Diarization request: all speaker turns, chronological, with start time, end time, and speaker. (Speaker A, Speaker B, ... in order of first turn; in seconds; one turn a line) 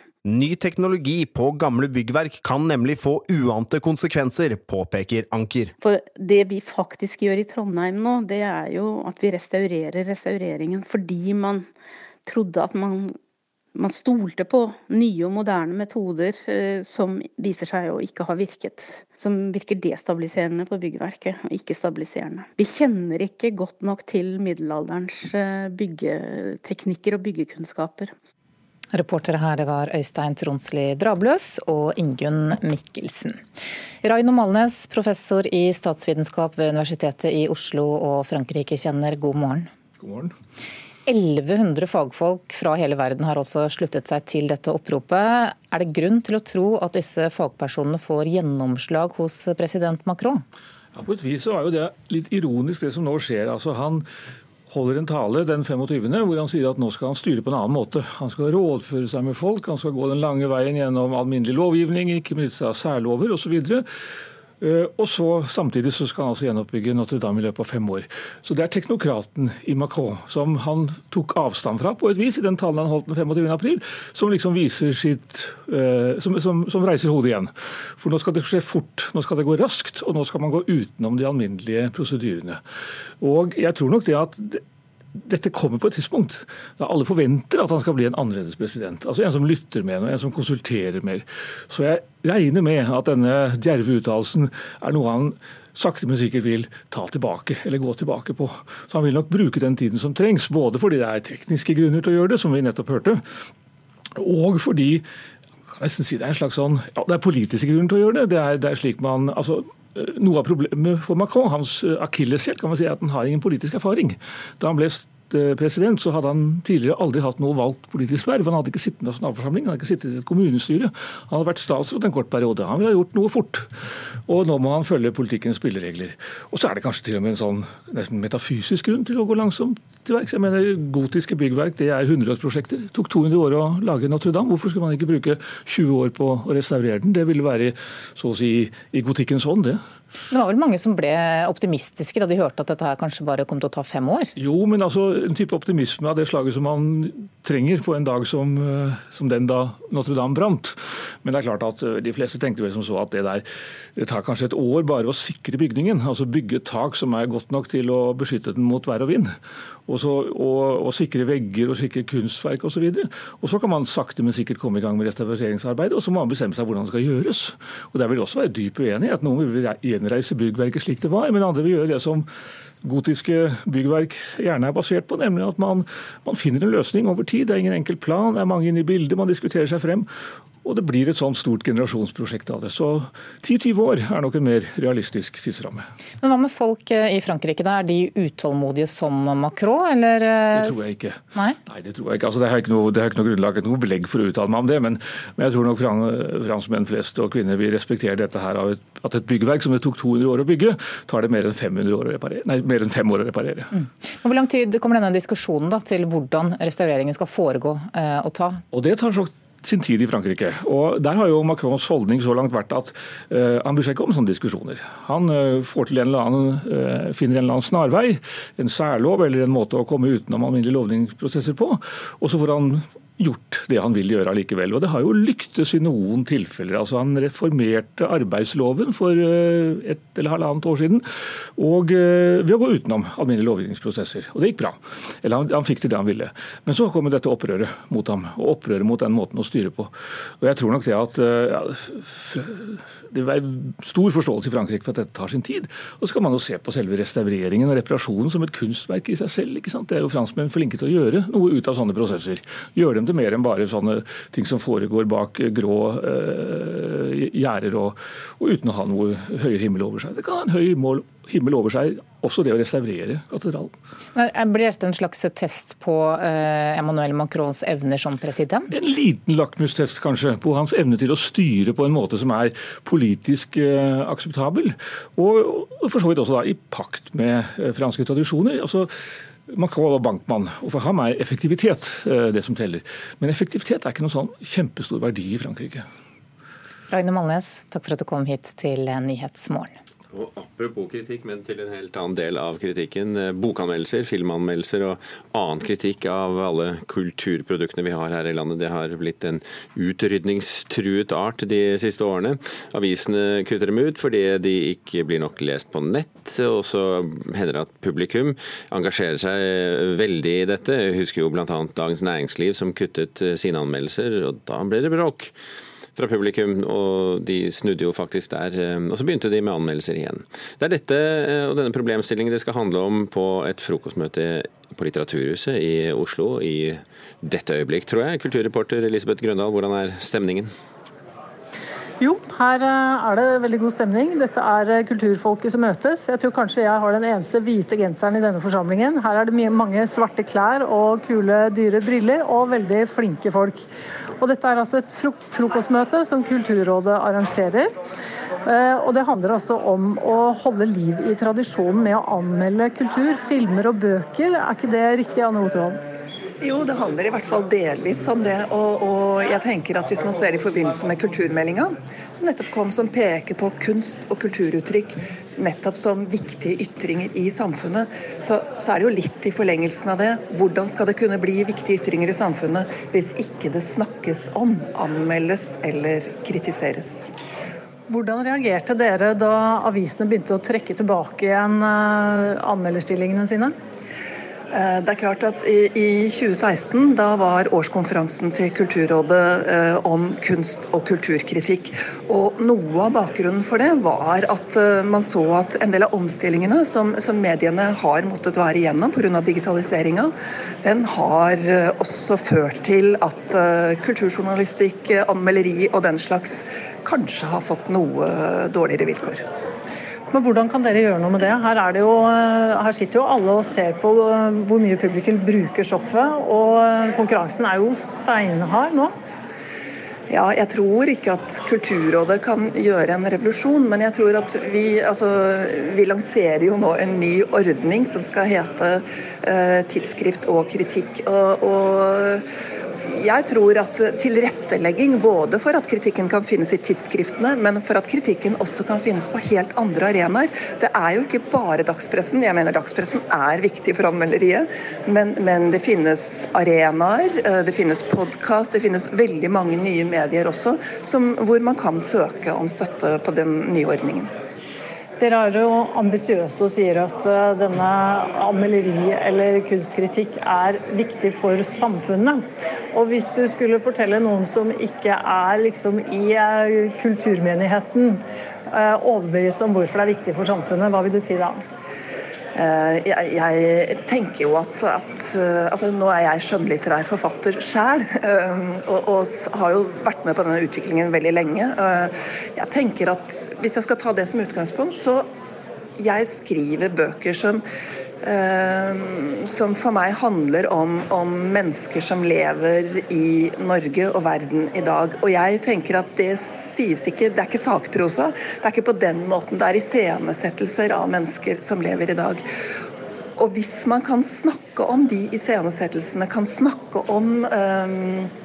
Speaker A: 0.2-5.7
Speaker B: 5.8-11.7
Speaker B: 12.3-13.1
Speaker B: 13.8-28.1
Speaker C: 28.9-33.4
Speaker C: 34.0-39.7
Speaker D: 40.0-40.3
Speaker C: 41.1-50.4
Speaker D: 50.9-54.0
Speaker D: 54.7-63.9
Speaker D: 64.6-82.6
Speaker D: 83.2-84.6
Speaker D: 85.2-103.2
Speaker D: 104.2-105.0
Speaker D: 105.7-123.7
Speaker D: 124.3-139.8
Speaker C: 140.3-144.3
Speaker D: 144.4-153.4
Speaker D: 154.0-159.3
Speaker D: 159.9-172.3
Speaker D: 172.8-180.1
Speaker D: 180.6-185.9
Speaker C: 186.2-191.6
Speaker D: 190.5-203.7
Speaker C: 203.8-208.6
Speaker D: 208.7-231.1
Speaker D: 231.6-263.7
Speaker C: 264.1-268.7
Speaker D: 268.7-278.9
Speaker D: 279.5-285.9
Speaker C: 286.9-289.7
Speaker E: 290.1-315.3
Speaker E: 316.0-330.5
Speaker F: 332.0-343.6
Speaker F: 344.2-347.7
Speaker F: 348.4-355.8
Speaker G: 356.4-377.1
Speaker F: 377.9-383.5
Speaker G: 384.5-400.1
Speaker G: 400.6-409.2
Speaker F: 410.1-418.9
Speaker G: 420.1-432.2
Speaker G: 432.9-454.1
Speaker F: 455.0-462.2
Speaker F: 462.7-471.4
Speaker G: 472.4-485.1
Speaker G: 485.8-487.4
Speaker G: 488.0-502.2
Speaker G: 503.2-508.1